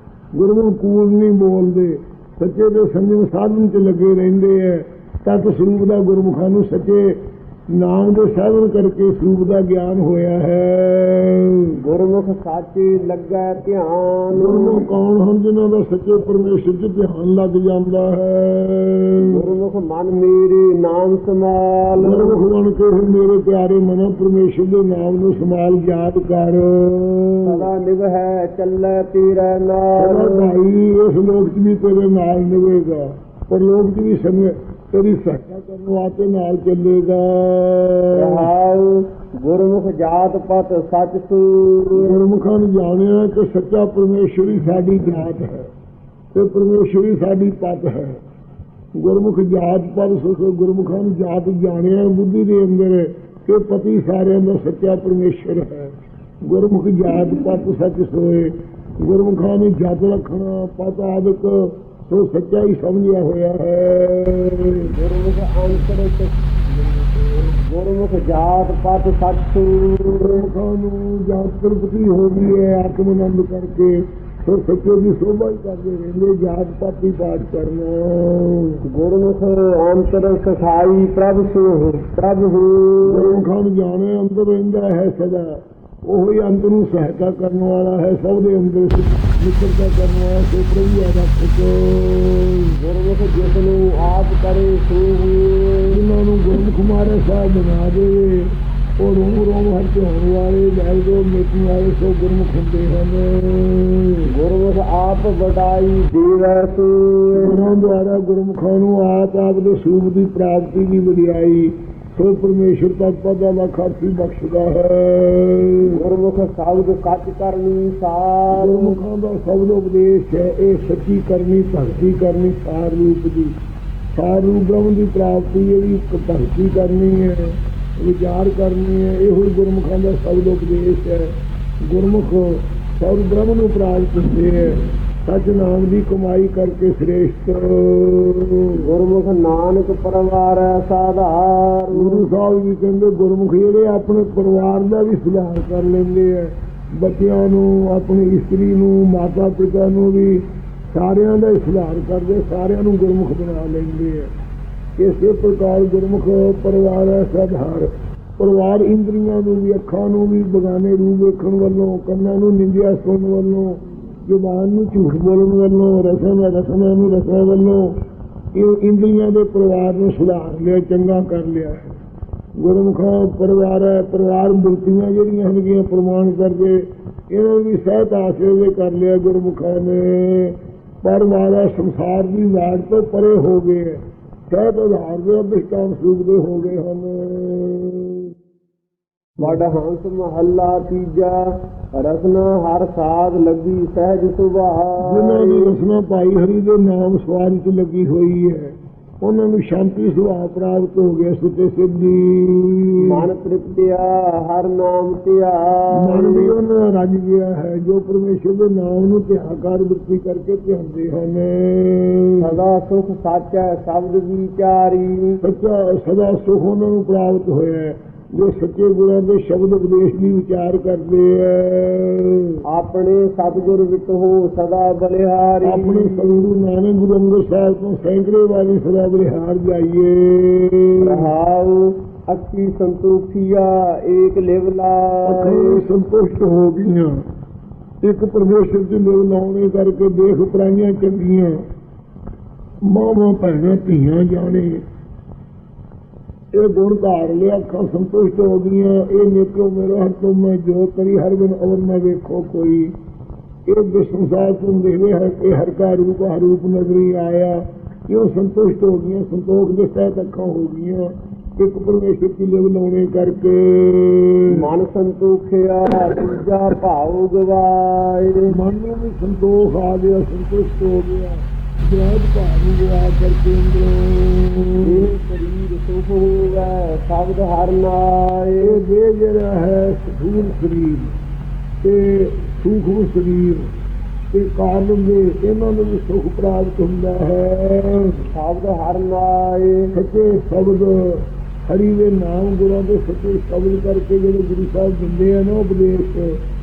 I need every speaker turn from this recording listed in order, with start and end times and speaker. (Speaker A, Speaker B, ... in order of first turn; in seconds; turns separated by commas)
Speaker A: 0.3-7.2, Speaker A: 7.7-11.8, Speaker B: 11.8-14.8, Speaker A: 14.3-19.4, Speaker B: 19.2-22.4, Speaker A: 22.0-27.7, Speaker B: 27.4-30.6, Speaker A: 29.9-38.5, Speaker B: 38.1-42.3, Speaker A: 41.9-45.7, Speaker A: 46.3-48.2, Speaker A: 48.9-64.9, Speaker B: 64.8-70.5, Speaker A: 70.1-78.8, Speaker B: 78.8-83.4, Speaker A: 83.0-92.8, Speaker B: 92.8-96.0, Speaker A: 95.8-104.3, Speaker B: 104.3-107.7, Speaker A: 107.3-116.0, Speaker B: 115.8-119.0, Speaker A: 118.5-123.5, Speaker A: 124.1-131.3, Speaker A: 131.8-138.8, Speaker B: 138.8-142.3, Speaker A: 141.9-154.3, Speaker A: 155.0-168.0, Speaker A: 168.5-171.9, Speaker A: 172.6-188.3, Speaker B: 189.4-195.7, Speaker A: 195.0-203.3, Speaker B: 203.0-206.5, Speaker A: 205.9-212.6, Speaker B: 212.4-215.4, Speaker A: 215.4-222.6, Speaker B: 222.6-226.4, Speaker A: 225.6-231.3, Speaker B: 231.0-235.8, Speaker A: 235.2-237.2, Speaker A: 238.0-241.6, Speaker A: 242.8-244.8, Speaker A: 246.5-252.9, Speaker A: 253.7-264.7, Speaker B: 264.5-268.5, Speaker A: 268.5-275.1, Speaker B: 274.8-278.8, Speaker A: 278.6-281.1, Speaker A: 281.8-283.7, Speaker A: 284.3-288.2, Speaker B: 288.3-289.9, Speaker A: 289.9-296.4